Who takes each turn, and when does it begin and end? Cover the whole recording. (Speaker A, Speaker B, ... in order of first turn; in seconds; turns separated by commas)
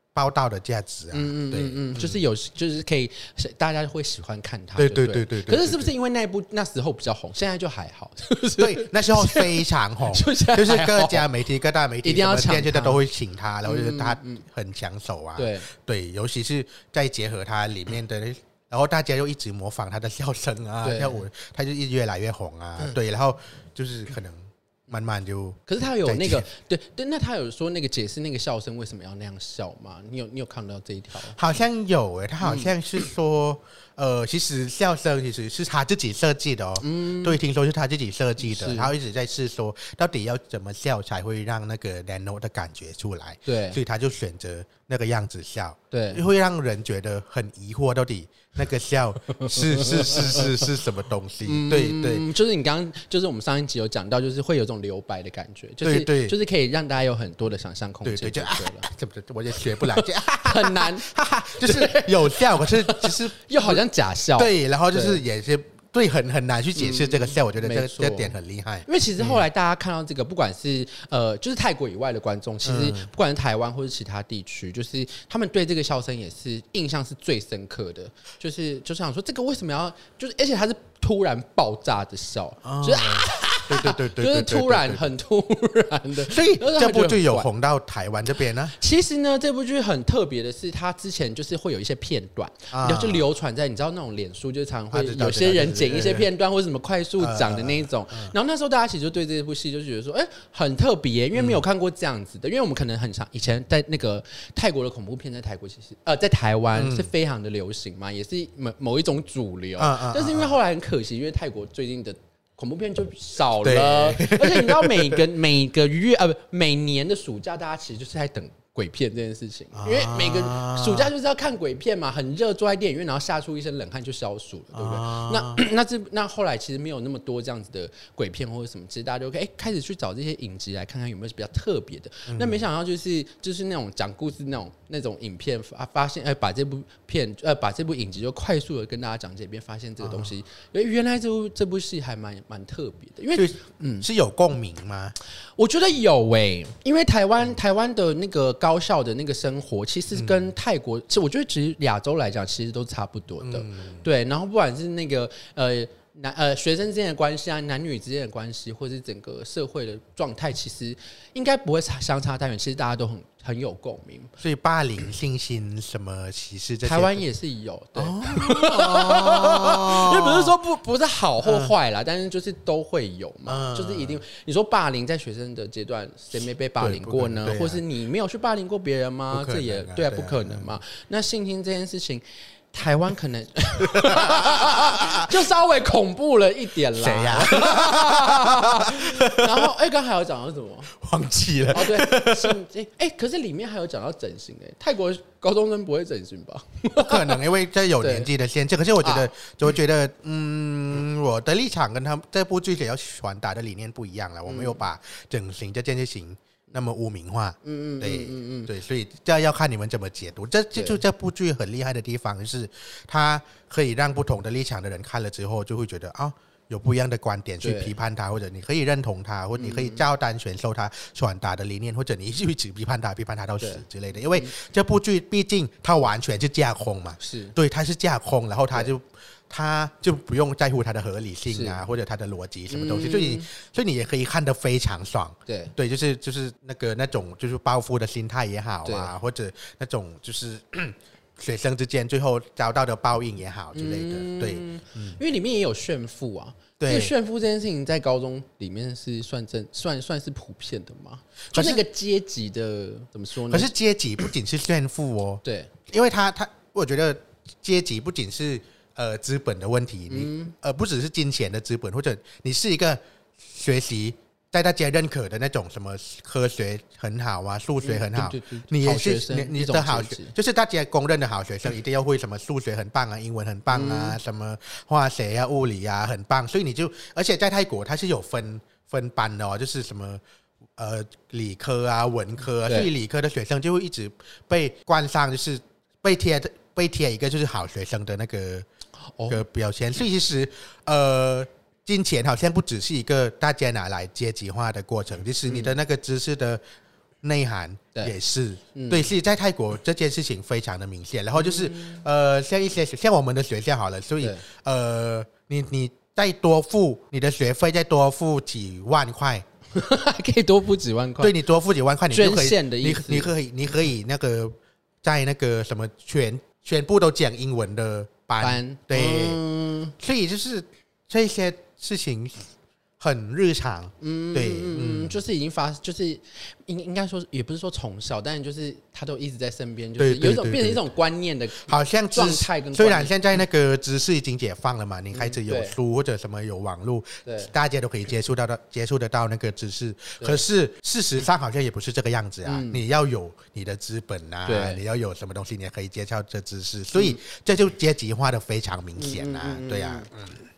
Speaker A: 0.1-2.2, Speaker B: 1.1-11.3, Speaker A: 4.8-5.9, Speaker A: 8.6-26.5, Speaker B: 12.0-13.0, Speaker B: 13.7-14.4, Speaker B: 15.4-15.7, Speaker B: 20.8-21.2, Speaker B: 25.7-31.4, Speaker A: 31.3-52.3, Speaker B: 32.4-33.1, Speaker B: 36.8-37.4, Speaker B: 38.4-38.9, Speaker B: 43.5-43.8, Speaker B: 45.9-46.2, Speaker B: 49.4-50.6, Speaker B: 51.4-58.9, Speaker A: 55.8-56.4, Speaker A: 58.0-63.8, Speaker B: 59.8-61.1, Speaker B: 61.6-65.2, Speaker A: 64.3-69.5, Speaker B: 66.8-68.3, Speaker B: 68.9-87.5, Speaker A: 72.6-73.1, Speaker A: 82.7-85.1, Speaker A: 86.2-88.8, Speaker B: 88.7-144.1, Speaker A: 92.7-93.3, Speaker A: 94.9-96.3, Speaker A: 97.2-98.3, Speaker A: 101.3-101.6, Speaker A: 106.8-107.1, Speaker A: 109.8-110.6, Speaker A: 113.6-115.2, Speaker A: 119.7-121.1, Speaker A: 124.7-125.6, Speaker A: 132.3-132.7, Speaker A: 140.0-140.3, Speaker A: 143.3-145.2, Speaker B: 145.6-164.3, Speaker A: 150.1-150.5, Speaker A: 153.4-154.1, Speaker A: 164.4-167.2, Speaker B: 166.8-190.9, Speaker A: 168.0-170.6, Speaker A: 171.4-171.7, Speaker A: 173.5-174.2, Speaker A: 176.8-177.8, Speaker A: 179.3-180.7, Speaker A: 183.9-185.3, Speaker A: 186.9-189.7, Speaker A: 191.0-192.6, Speaker B: 191.7-197.4, Speaker A: 197.0-245.2, Speaker B: 198.0-198.3, Speaker B: 199.0-199.3, Speaker B: 204.5-204.8, Speaker B: 207.6-208.7, Speaker B: 210.8-211.0, Speaker B: 217.6-217.9, Speaker B: 219.6-220.1, Speaker B: 223.6-224.5, Speaker B: 227.2-227.6, Speaker B: 231.5-231.8, Speaker B: 232.7-233.5, Speaker B: 235.5-235.7, Speaker B: 238.8-239.1, Speaker B: 243.8-253.7, Speaker A: 246.8-247.1, Speaker A: 251.5-251.8, Speaker A: 253.5-280.2, Speaker B: 255.4-255.7, Speaker B: 260.1-260.5, Speaker B: 267.8-270.3, Speaker B: 273.7-274.2, Speaker A: 280.8-288.7, Speaker B: 282.6-282.9, Speaker B: 289.2-289.4, Speaker A: 289.3-296.6, Speaker B: 295.5-295.8, Speaker A: 297.2-309.4, Speaker B: 298.8-299.1, Speaker B: 301.4-302.0, Speaker B: 309.7-311.4, Speaker A: 311.2-319.4, Speaker B: 312.1-313.3, Speaker B: 318.4-319.9, Speaker A: 320.0-325.2, Speaker B: 324.0-333.1, Speaker A: 330.0-330.8, Speaker A: 331.6-350.3, Speaker B: 335.1-335.8, Speaker B: 337.2-337.5, Speaker B: 342.4-342.8, Speaker B: 344.5-344.8, Speaker B: 346.9-347.2, Speaker B: 349.0-350.1